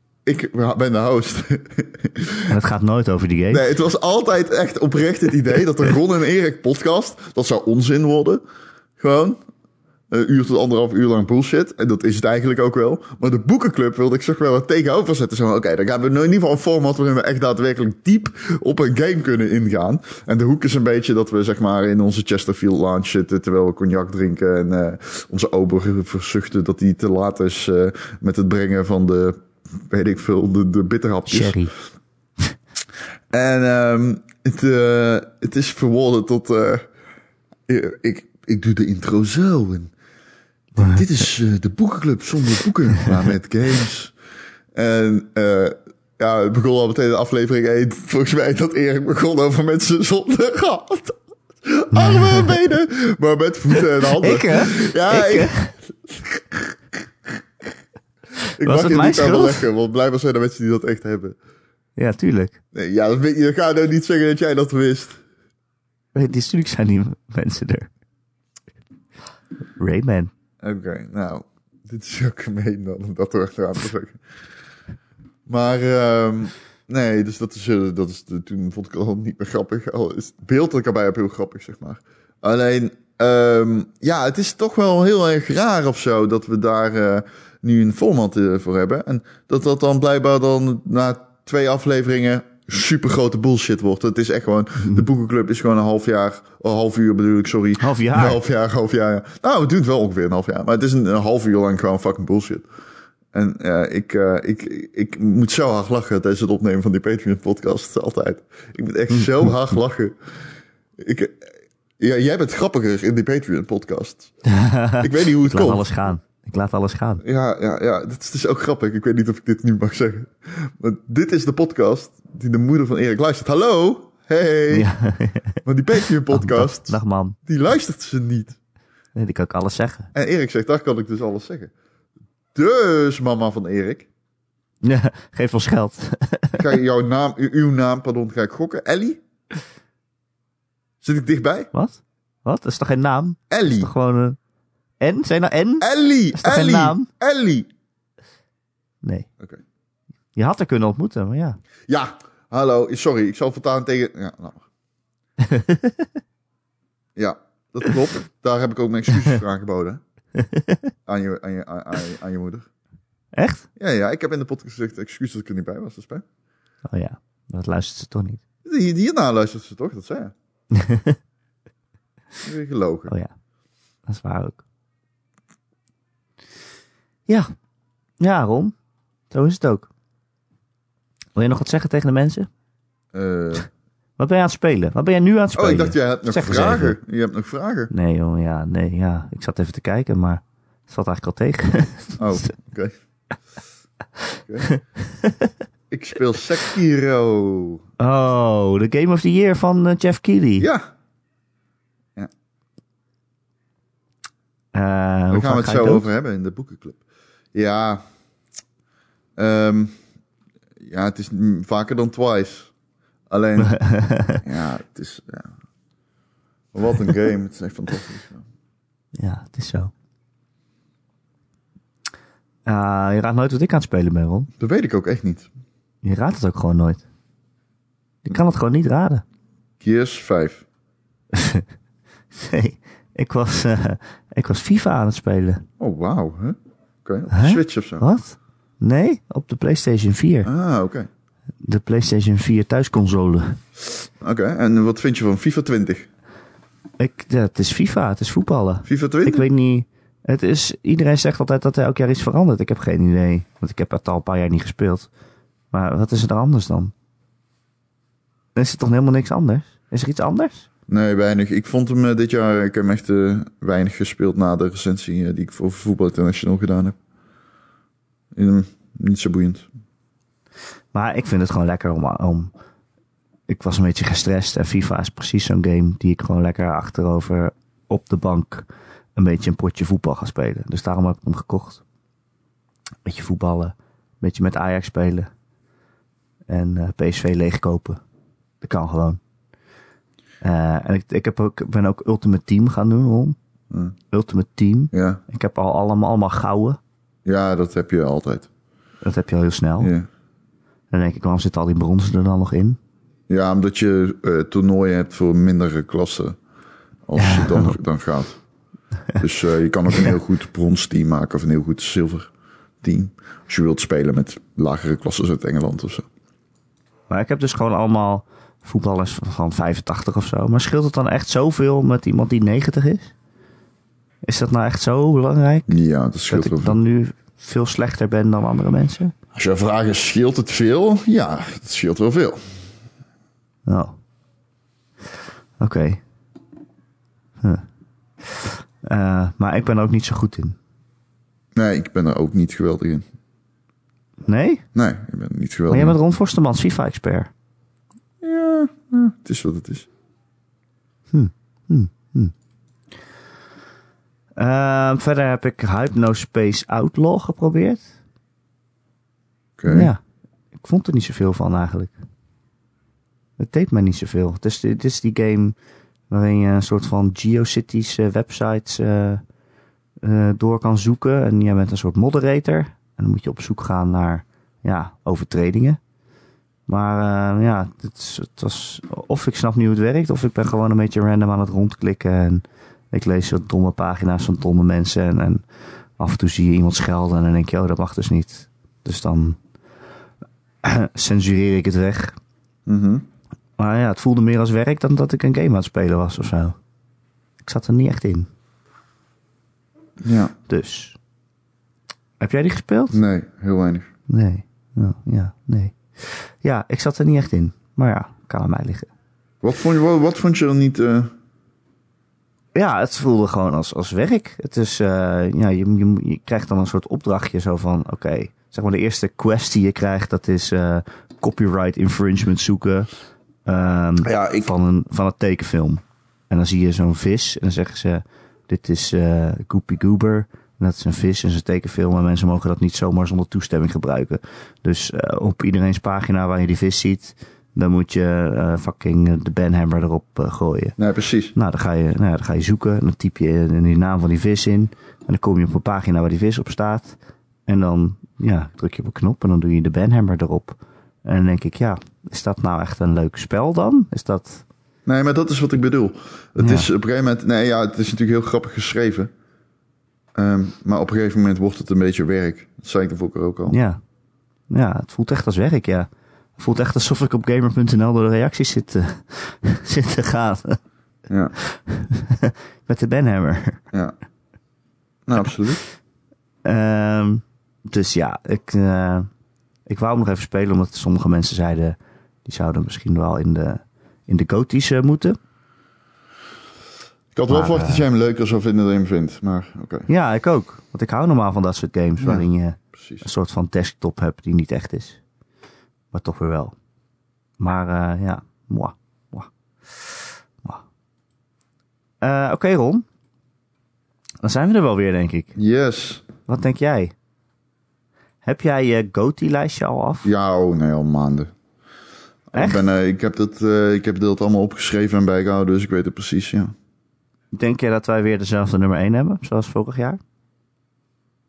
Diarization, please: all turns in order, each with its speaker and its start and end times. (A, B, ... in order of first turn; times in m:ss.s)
0:00.3-0:02.5 A
0:02.5-0:03.6 B
0:03.5-0:08.4 A
0:09.0-0:09.4 A
0:10.1-0:31.6 A
0:31.3-0:31.7 B
0:33.3-0:36.8 A
0:37.7-0:39.9 A
0:40.8-0:41.0 B
0:40.8-0:44.1 A
0:44.8-0:55.6 A
0:51.9-0:52.5 B
0:54.0-0:55.7 B
0:56.1-0:56.8 A
0:58.6-1:01.4 A
0:58.6-0:59.7 B
1:02.0-1:02.6 B
1:02.7-1:05.2 A
1:06.2-1:07.9 B
1:09.8-1:10.3 B
1:10.6-1:14.2 A
1:15.5-1:42.7 A
1:37.8-1:38.4 B
1:43.3-1:50.2 A
1:49.1-1:49.5 B
1:51.0-1:54.3 A
1:54.4-1:57.2 B
1:55.0-1:55.9 A
1:57.2-2:04.9 A
2:04.7-2:05.6 B
2:05.6-2:08.6 A
2:06.3-2:07.4 B
2:09.2-2:10.1 B
2:10.1-2:11.7 A
2:12.6-2:14.1 A
2:14.8-2:16.6 B
2:16.6-2:19.2 A
2:21.0-2:21.7 A
2:21.7-2:24.4 B
2:23.5-2:23.9 A
2:25.0-2:27.1 B
2:25.8-2:27.7 A
2:29.0-2:29.3 B
2:30.4-2:31.6 B
2:31.9-2:34.6 A
2:35.4-2:36.1 B
2:37.2-2:40.0 A
2:40.4-2:40.8 B
2:41.1-2:42.7 A
2:43.3-2:43.7 B
2:43.8-2:46.2 A
2:46.9-2:48.4 B
2:48.6-2:50.3 A
2:50.7-2:51.2 B
2:52.4-2:53.1 A
2:54.1-2:54.6 B
2:58.2-2:58.7 B
2:59.3-2:59.9 B
3:01.4-3:02.5 B
3:03.1-3:03.7 A
3:04.2-3:07.0 B
3:05.6-3:07.9 A
3:07.9-3:12.2 B
3:12.2-3:12.9 A
3:14.6-3:15.5 B
3:15.9-3:17.8 A
3:18.0-3:20.7 B
3:20.6-3:20.9 A
3:24.7-3:26.1 B
3:25.3-3:27.0 A
3:27.5-3:28.0 A
3:29.4-3:29.9 A
3:30.8-3:32.7 A
3:33.3-3:33.8 A
3:33.6-3:34.4 B
3:34.4-3:35.5 A
3:36.7-3:38.4 A
3:39.2-3:39.9 B
3:42.7-3:44.5 B
3:44.6-3:45.5 A
3:46.0-3:47.0 B
3:48.2-3:49.2 B
3:49.8-3:50.6 A
3:51.3-3:51.7 B
3:52.4-3:55.6 B
3:55.8-3:58.1 A
3:57.3-4:00.5 B
4:00.4-4:01.1 A
4:01.6-4:03.6 B
4:04.2-4:06.1 A
4:07.0-4:15.1 B
4:08.8-4:09.5 A
4:15.7-4:16.9 B
4:18.6-4:20.7 B
4:20.9-4:27.0 A
4:28.4-4:29.7 A
4:30.9-4:32.5 B
4:33.5-4:41.8 B
4:43.1-4:45.3 B
4:46.5-4:48.0 B
4:48.6-4:49.2 B
4:50.4-4:53.4 B
4:54.1-4:56.8 B
4:54.9-4:55.2 A
4:57.3-4:58.5 A
4:59.0-4:59.9 B
4:59.8-5:00.1 A
5:00.9-5:02.8 B
5:03.3-5:06.4 A
5:07.1-5:08.4 A
5:07.2-5:07.8 B
5:09.2-5:12.3 A
5:12.8-5:16.1 A
5:17.1-5:23.1 B
5:24.2-5:25.7 B
5:25.7-5:26.8 A
5:26.3-5:29.1 B
5:29.3-5:32.4 A
5:33.7-5:34.0 B
5:35.6-5:36.0 B
5:38.2-5:40.6 B
5:41.6-5:43.1 A
5:44.3-5:44.6 B
5:44.8-5:46.0 A
5:45.7-5:47.3 B
5:48.2-5:49.9 A
5:51.1-5:52.3 B
5:54.4-5:57.9 B
5:59.6-5:59.9 A
5:59.7-6:00.0 B
6:00.6-6:01.9 B
6:03.4-6:05.6 B
6:06.1-6:09.2 B
6:10.0-6:15.8 B
6:16.7-6:25.4 B
6:26.0-6:29.4 B
6:30.6-6:32.2 B
6:32.7-6:33.0 A
6:33.6-6:36.6 B
6:37.4-6:38.3 B
6:40.0-6:40.3 A
6:40.5-6:41.0 B
6:42.2-6:43.0 B
6:42.9-6:43.9 A
6:44.1-6:48.9 B
6:49.4-6:51.1 A
6:52.6-7:02.9 B
7:03.5-7:20.8 B
7:04.0-7:04.5 A
7:20.8-7:21.3 A
7:21.4-7:34.4 B
7:34.9-7:39.1 A
7:36.4-7:36.7 B
7:40.2-7:43.6 A
7:43.5-7:43.8 B
7:44.5-7:50.6 B
7:51.1-7:51.4 A
7:51.4-7:53.6 B
7:55.1-7:55.6 A
7:56.4-7:59.1 B
7:59.7-8:05.2 B
8:07.1-8:09.9 A
8:07.3-8:07.8 B
8:09.9-8:15.0 B
8:12.8-8:13.0 A
8:15.9-8:16.6 B
8:17.4-8:20.6 B
8:22.0-8:22.8 B
8:24.2-8:25.4 B
8:25.4-8:26.0 A
8:26.3-8:26.9 B
8:28.2-8:30.1 B
8:30.0-8:31.3 A
8:32.3-8:36.5 A
8:32.3-8:32.6 B
8:37.3-8:40.0 B